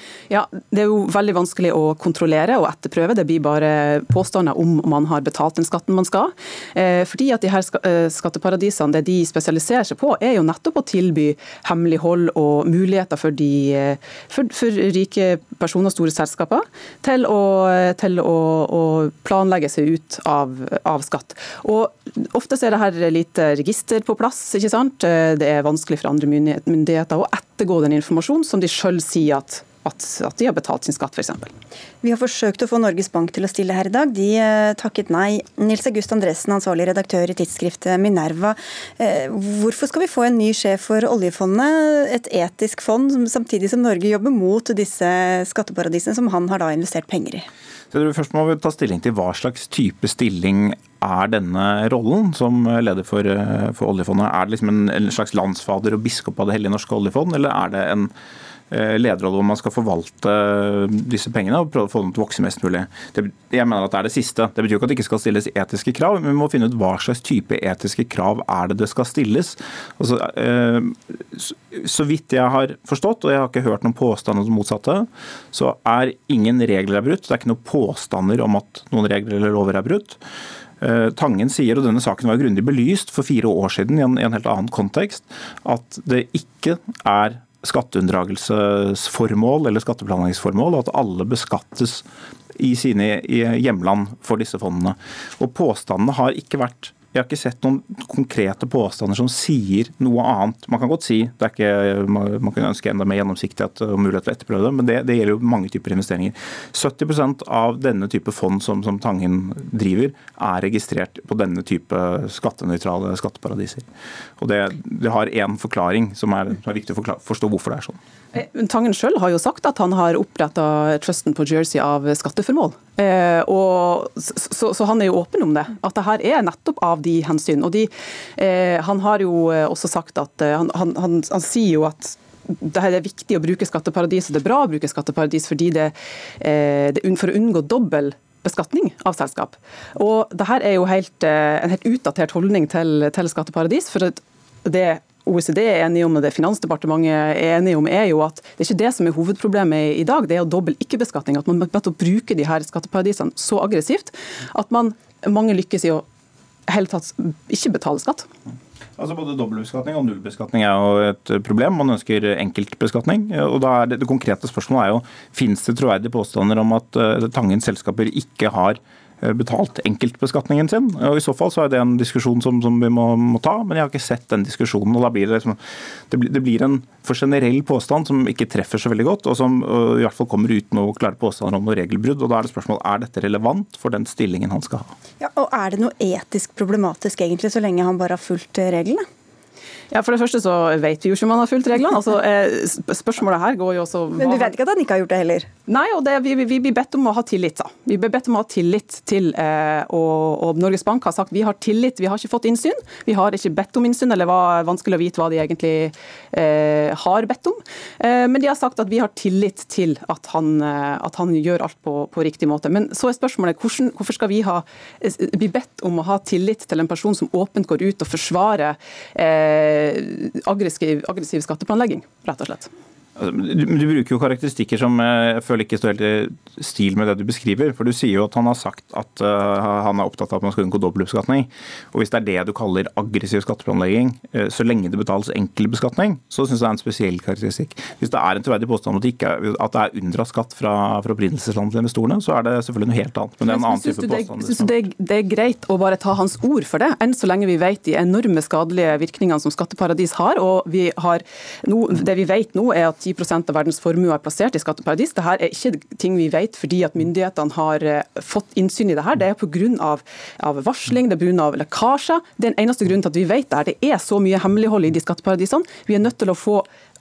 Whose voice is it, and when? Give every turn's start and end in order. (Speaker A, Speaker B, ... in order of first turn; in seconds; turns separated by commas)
Speaker A: 0.3-31.5, Speaker B: 32.0-47.5, Speaker C: 47.9-58.1, Speaker C: 58.7-80.2, Speaker C: 80.8-92.0, Speaker C: 92.6-113.9, Speaker C: 114.4-118.0, Speaker A: 118.3-156.1, Speaker A: 156.7-158.3, Speaker C: 159.0-184.9, Speaker B: 185.2-189.0, Speaker A: 189.9-194.5, Speaker B: 194.2-195.5, Speaker A: 195.7-222.7, Speaker C: 223.2-244.7, Speaker A: 243.4-266.7